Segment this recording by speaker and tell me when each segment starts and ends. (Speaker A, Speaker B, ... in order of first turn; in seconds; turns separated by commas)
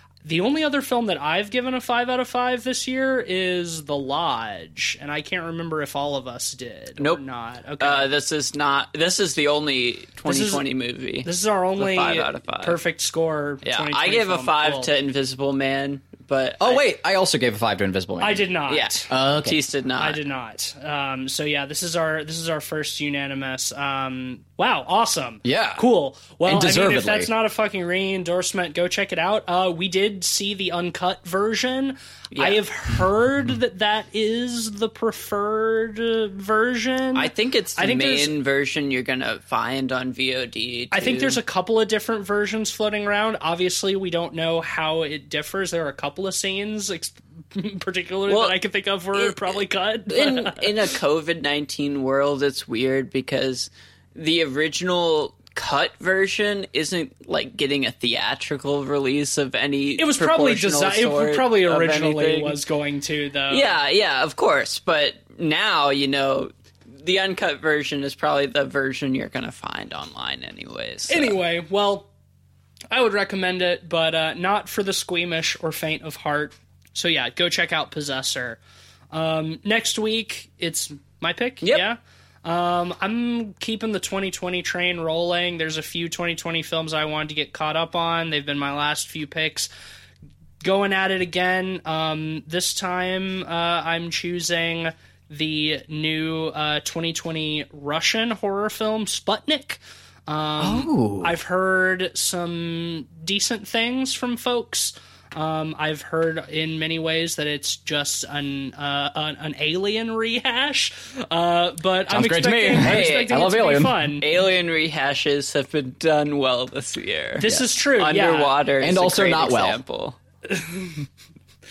Speaker A: 0.2-8.1, Speaker B: 7.8-12.8, Speaker A: 10.2-10.7, Speaker A: 11.2-14.9, Speaker B: 13.6-16.8, Speaker C: 16.6-18.5, Speaker A: 18.2-19.1, Speaker B: 18.7-20.2, Speaker C: 19.1-19.6, Speaker A: 20.0-38.3, Speaker C: 25.4-25.8, Speaker C: 26.4-27.3, Speaker B: 32.3-32.6, Speaker B: 37.1-41.4, Speaker A: 40.9-50.8, Speaker B: 48.3-48.6, Speaker B: 49.1-49.5, Speaker B: 50.1-62.6, Speaker A: 60.0-63.7, Speaker B: 63.5-71.4, Speaker A: 71.1-72.1, Speaker A: 72.9-78.6, Speaker A: 79.1-89.7, Speaker A: 90.6-114.2, Speaker C: 100.6-101.3, Speaker C: 112.1-114.1, Speaker B: 112.8-113.3, Speaker B: 114.2-120.2, Speaker A: 117.4-118.5, Speaker C: 118.8-119.8, Speaker A: 120.5-121.0